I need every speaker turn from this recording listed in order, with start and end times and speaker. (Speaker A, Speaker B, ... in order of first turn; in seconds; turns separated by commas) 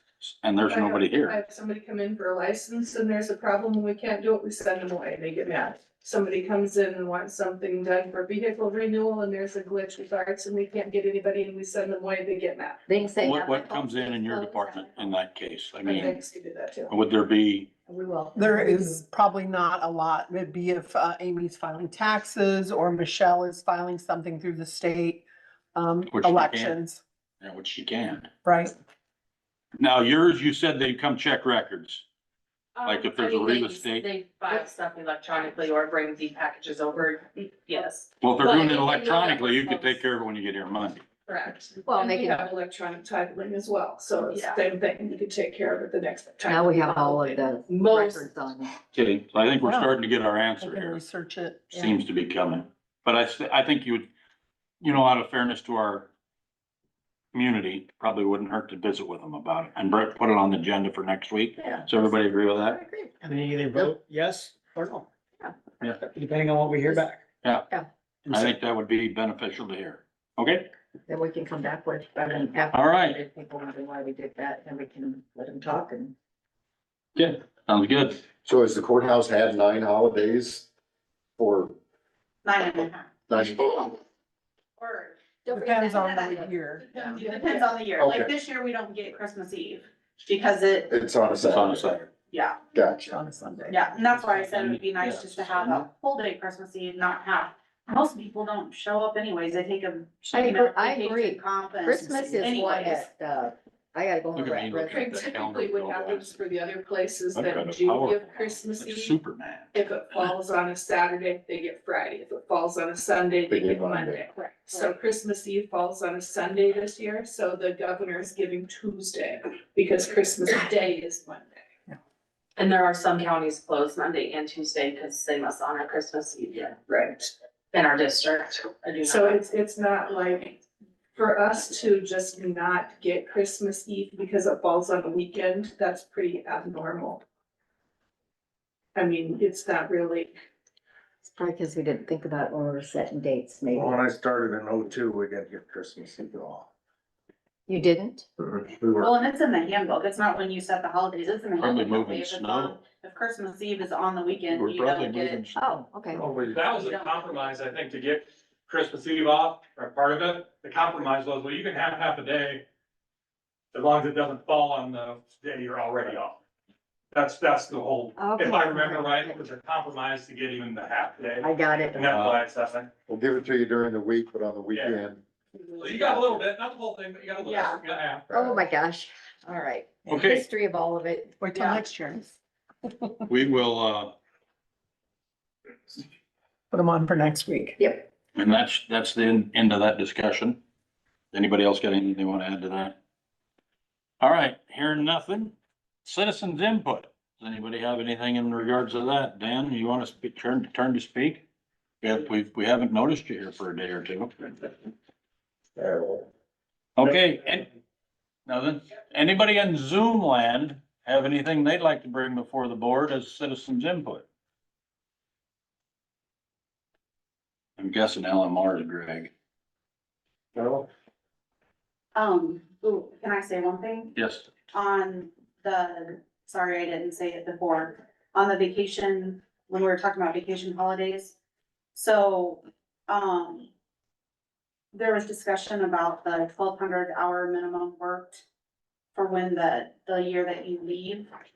Speaker A: 0.2-1.4, Speaker B: 0.6-12.8, Speaker C: 12.9-15.1, Speaker A: 13.2-16.2, Speaker B: 15.8-16.9, Speaker A: 16.9-17.7, Speaker C: 17.9-19.0, Speaker D: 18.4-27.0, Speaker A: 26.1-26.8, Speaker A: 27.4-28.3, Speaker D: 28.4-28.7, Speaker A: 29.8-32.0, Speaker E: 32.8-40.0, Speaker A: 32.9-34.1, Speaker A: 38.2-41.0, Speaker E: 41.3-41.5, Speaker B: 41.4-47.4, Speaker C: 41.9-42.5, Speaker E: 44.3-44.6, Speaker C: 46.5-48.8, Speaker E: 47.7-48.3, Speaker A: 48.9-51.0, Speaker D: 49.6-49.9, Speaker D: 50.6-51.9, Speaker A: 51.7-54.1, Speaker A: 54.8-56.1, Speaker A: 57.3-62.8, Speaker C: 61.6-63.1, Speaker F: 63.2-65.0, Speaker F: 66.0-67.2, Speaker A: 67.4-67.7, Speaker A: 68.3-70.7, Speaker C: 71.1-76.1, Speaker A: 72.7-73.2, Speaker A: 77.2-78.2, Speaker G: 78.4-80.7, Speaker G: 81.4-81.8, Speaker H: 82.4-83.1, Speaker G: 83.3-84.0, Speaker H: 84.8-85.2, Speaker C: 85.5-86.4, Speaker D: 85.5-87.6, Speaker H: 85.9-90.9, Speaker G: 88.0-88.3, Speaker G: 90.9-91.9, Speaker A: 91.4-92.1, Speaker H: 92.3-92.6, Speaker G: 92.8-93.1, Speaker D: 93.0-93.9, Speaker H: 93.7-103.1, Speaker A: 94.1-95.9, Speaker C: 100.3-105.2, Speaker A: 104.3-106.3, Speaker B: 104.9-109.2, Speaker A: 107.3-109.7, Speaker B: 109.7-121.6, Speaker G: 113.5-114.2, Speaker E: 122.6-126.8, Speaker B: 126.9-127.3, Speaker E: 127.7-129.5, Speaker B: 129.1-130.6, Speaker B: 131.1-137.2, Speaker B: 138.9-140.3, Speaker C: 141.2-144.0, Speaker I: 143.7-146.7, Speaker C: 147.7-148.3, Speaker I: 148.4-149.2, Speaker H: 149.0-155.5, Speaker A: 151.6-152.8, Speaker A: 154.5-155.6, Speaker C: 155.6-156.2, Speaker I: 156.2-156.6, Speaker J: 156.3-162.6, Speaker H: 156.7-157.5, Speaker J: 163.7-166.4, Speaker J: 167.1-172.9, Speaker C: 168.2-169.4, Speaker C: 171.4-172.2, Speaker A: 172.1-172.4, Speaker G: 173.1-175.2, Speaker J: 174.7-175.0, Speaker J: 175.7-178.3, Speaker H: 177.4-177.8, Speaker C: 178.3-181.9, Speaker G: 178.3-178.6, Speaker A: 180.1-180.5, Speaker D: 181.4-182.3, Speaker A: 183.3-184.1, Speaker D: 186.7-187.8, Speaker C: 187.8-188.1, Speaker A: 188.3-190.6, Speaker A: 191.3-193.0, Speaker A: 194.2-195.5, Speaker A: 196.1-201.4, Speaker A: 202.0-204.5, Speaker I: 205.8-206.2, Speaker A: 207.0-207.7, Speaker A: 208.5-214.2, Speaker A: 217.8-219.3, Speaker H: 222.2-224.1, Speaker A: 224.2-224.5, Speaker H: 224.7-231.3, Speaker H: 231.9-233.7, Speaker H: 234.9-238.4, Speaker H: 239.2-241.3